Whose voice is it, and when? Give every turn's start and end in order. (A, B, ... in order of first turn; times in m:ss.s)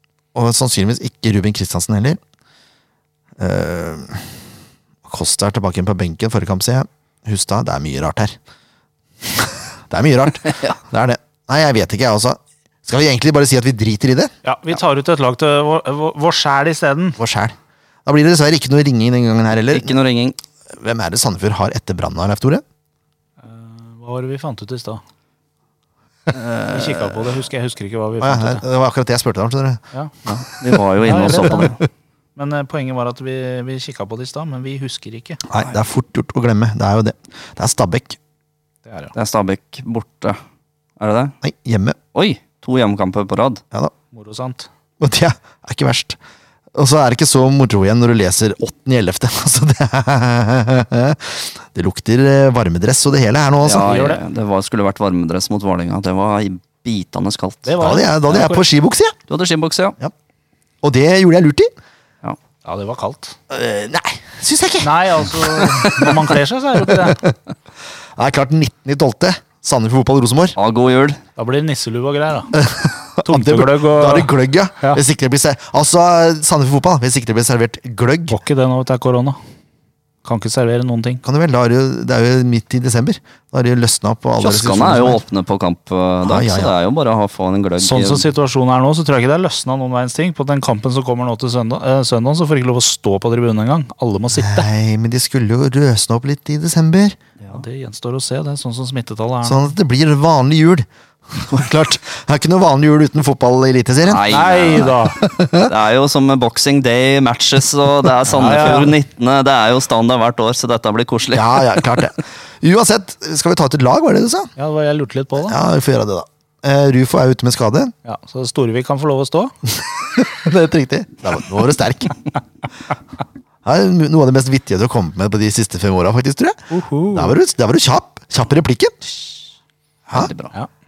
0:00.3-0:02.2 A
0:03.4-0:04.3 A
0:05.0-0:08.4 A
0:09.2-0:14.3 A
0:14.4-0:17.2 B
0:17.2-0:19.9 A
0:19.7-0:20.4 C
0:20.7-0:22.6 A
0:23.4-0:25.0 B
0:26.3-0:27.4 C
0:26.7-0:28.6 B
0:28.2-0:29.8 A
0:30.2-0:31.8 C
0:31.0-0:31.8 B
0:32.4-0:35.4 B
0:35.5-0:38.2 A
0:38.9-0:39.1 B
0:39.2-0:40.4 C
0:41.0-0:41.4 C
0:41.4-0:42.0 A
0:42.1-0:43.6 C
0:44.1-0:44.7 B
0:45.0-0:46.2 A
0:46.7-0:54.0 A
0:53.6-0:57.7 C
0:53.8-0:54.2 B
0:57.7-0:58.6 B
0:57.8-0:59.2 A
0:59.3-1:00.0 C
1:00.8-1:01.7 A
1:02.6-1:03.4 B
1:03.5-1:05.8 A
1:04.8-1:07.2 B
1:05.9-1:06.2 C
1:06.9-1:07.4 A
1:08.2-1:10.6 A
1:10.6-1:11.2 C
1:11.4-1:12.5 B
1:12.5-1:18.4 A
1:13.3-1:15.0 B
1:18.3-1:19.4 B
1:20.2-1:21.2 B
1:21.2-1:25.2 A
1:24.4-1:28.3 C
1:26.2-1:26.7 A
1:27.8-1:34.7 B
1:34.4-1:37.2 A
1:37.5-1:39.7 B
1:39.4-1:45.7 A
1:44.1-1:45.0 C
1:44.3-1:45.2 B
1:45.6-1:52.0 C
1:48.3-1:49.0 B
1:51.3-1:54.5 A
1:54.6-1:55.6 B
1:55.4-1:57.9 A
1:58.0-1:59.5 B
1:59.8-2:02.2 A
2:03.6-2:09.0 A
2:06.7-2:07.4 B
2:10.1-2:10.5 C